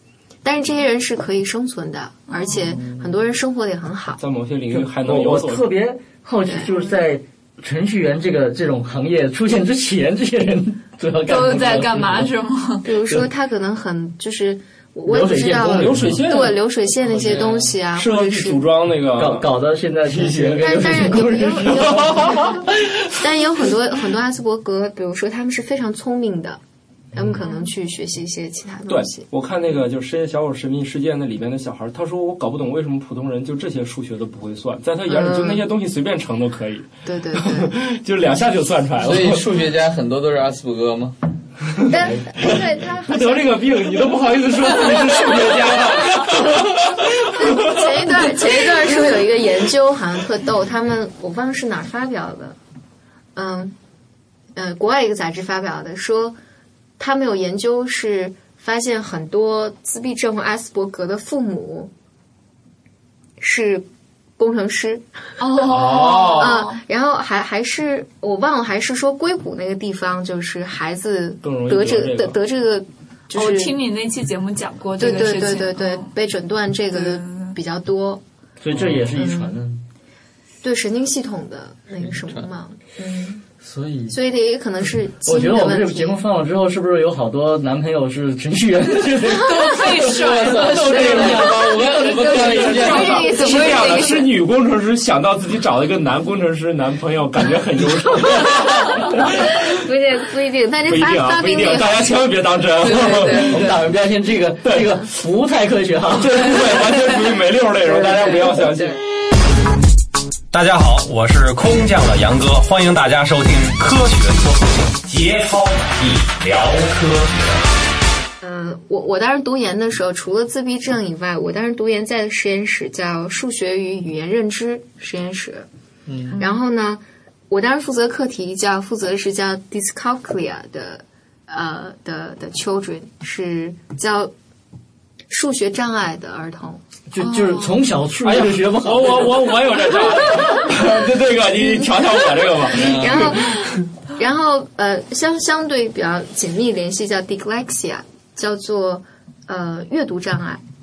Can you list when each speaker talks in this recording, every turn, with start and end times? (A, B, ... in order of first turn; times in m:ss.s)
0:00.4-0:04.2 A
0:02.3-0:02.7 B
0:04.2-0:05.7 C
0:04.7-0:12.3 D
0:06.4-0:06.7 A
0:11.3-0:12.9 B
0:12.8-0:18.7 A
0:15.1-0:16.2 D
0:15.6-0:19.5 C
0:19.2-0:22.1 D
0:20.1-0:23.0 C
0:20.6-0:26.6 A
0:27.2-0:29.2 A
0:28.9-0:39.5 C
0:35.1-0:35.6 A
0:37.0-0:37.7 A
0:39.0-0:41.2 E
0:41.8-0:48.5 C
0:41.9-0:44.0 A
0:47.3-0:52.6 A
0:53.4-0:53.8 A
0:54.6-0:56.4 A
0:57.0-1:01.9 A
1:03.4-1:03.8 A
1:04.4-1:05.1 A
1:05.4-1:06.8 B
1:05.6-1:13.8 A
1:05.6-1:06.6 C
1:11.4-1:12.4 C
1:13.3-1:16.1 B
1:15.0-1:18.2 A
1:16.9-1:17.6 B
1:18.6-1:19.8 D
1:19.1-1:19.6 A
1:20.6-1:23.4 A
1:22.0-1:22.5 E
1:23.6-1:24.2 D
1:24.1-1:26.2 A
1:25.2-1:33.3 D
1:29.2-1:32.1 B
1:30.6-1:39.7 C
1:31.6-1:32.5 E
1:32.1-1:34.3 A
1:33.3-1:34.1 B
1:38.4-1:42.1 A
1:40.8-1:43.8 C
1:42.8-1:43.6 B
1:43.4-1:46.6 D
1:44.6-1:45.0 C
1:46.1-1:49.0 C
1:50.5-1:57.7 F
1:58.4-2:05.7 A
2:06.1-2:06.4 E
2:06.4-2:14.3 A
2:15.3-2:16.8 A
2:17.1-2:19.6 D
2:17.2-2:17.8 B
2:18.2-2:23.6 C
2:21.6-2:22.0 A
2:22.8-2:23.3 E
2:22.8-2:30.6 A